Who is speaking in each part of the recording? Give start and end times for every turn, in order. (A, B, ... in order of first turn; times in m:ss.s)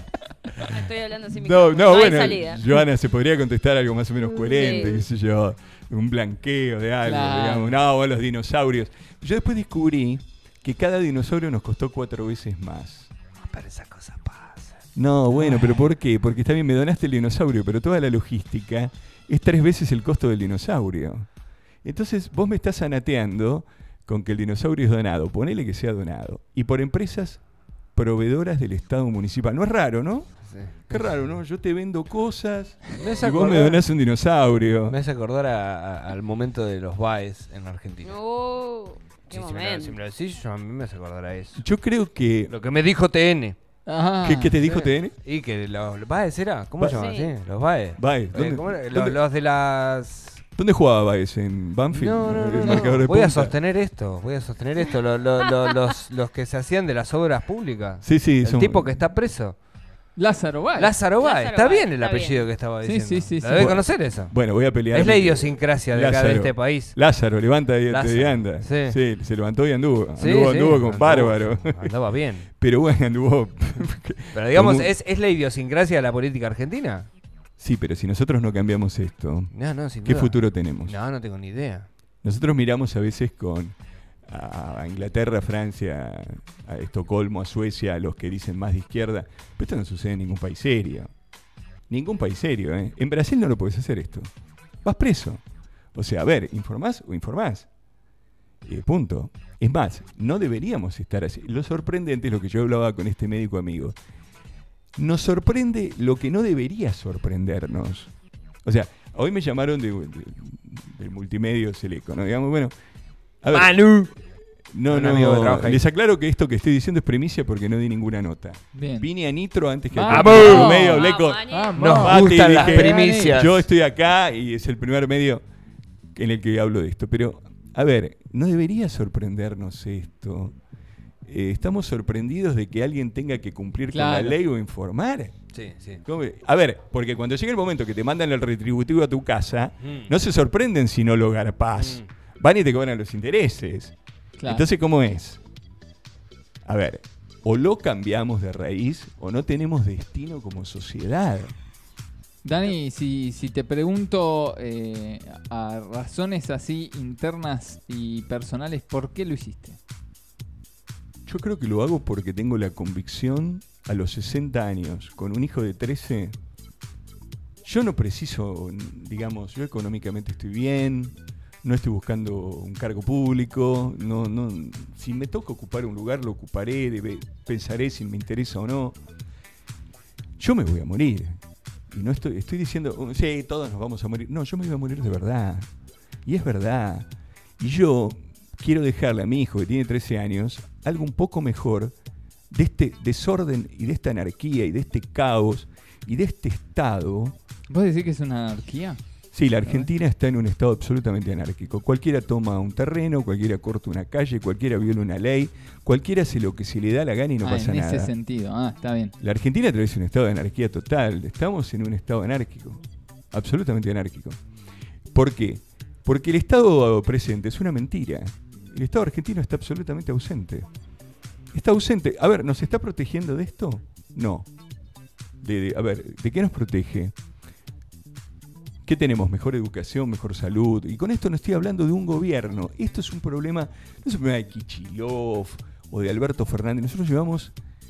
0:00.6-0:02.6 A
0:01.3-0:13.1 B
0:04.3-0:05.0 A
0:07.0-0:07.8 C
0:13.4-0:14.8 D
0:15.0-0:21.3 B
0:21.8-0:27.4 B
0:27.9-0:30.3 B
0:30.5-0:31.2 D
0:30.9-0:35.0 B
0:33.0-0:33.8 D
0:34.9-0:38.2 D
0:38.0-0:40.0 A
0:39.3-0:41.6 D
0:41.6-0:42.5 B
0:42.5-0:43.6 D
0:43.8-0:44.6 C
0:44.2-0:45.1 B
0:44.6-0:50.4 D
0:46.9-0:47.3 A
0:48.0-0:49.2 B
0:50.6-0:53.5 B
0:51.9-0:59.6 D
0:58.0-0:59.0 B
1:00.2-1:01.0 C
1:00.8-1:07.0 D
1:01.2-1:02.5 A
1:02.8-1:03.7 C
1:03.5-1:11.9 B
1:07.9-1:09.0 D
1:10.2-1:12.5 D
1:12.6-1:14.9 B
1:14.3-1:17.1 D
1:17.6-1:21.0 B
1:19.5-1:21.9 D
1:22.2-1:23.7 B
1:24.3-1:31.1 B
1:31.9-1:34.3 B
1:34.8-1:35.4 B
1:35.9-1:37.7 B
1:38.6-1:44.0 B
1:45.0-1:48.1 B
1:48.6-1:52.7 B
1:53.4-1:53.9 B
1:53.5-1:54.1 D
1:54.7-2:05.4 B
1:54.9-1:55.8 D
1:58.7-1:59.1 C
1:59.9-2:03.4 C
2:00.1-2:00.8 D
2:00.8-2:01.8 A
2:01.7-2:03.6 D
2:06.1-2:10.5 B
2:11.3-2:15.3 B
2:13.9-2:14.4 C
2:15.5-2:16.0 D
2:16.0-2:25.4 B
2:19.8-2:20.1 D
2:21.8-2:22.1 D
2:24.4-2:24.6 C
2:26.6-2:31.5 B
2:32.4-2:39.8 C
2:41.2-2:46.3 B
2:47.6-2:59.0 B
3:00.4-3:01.4 B
3:01.9-3:05.7 B
3:06.2-3:07.1 B
3:07.6-3:11.9 B
3:12.5-3:17.4 B
3:17.7-3:19.0 C
3:19.3-3:28.1 B
3:27.4-3:29.1 C
3:29.2-3:34.4 B
3:35.1-3:40.7 B
3:41.5-3:44.5 B
3:45.4-3:47.1 B
3:48.8-3:57.5 B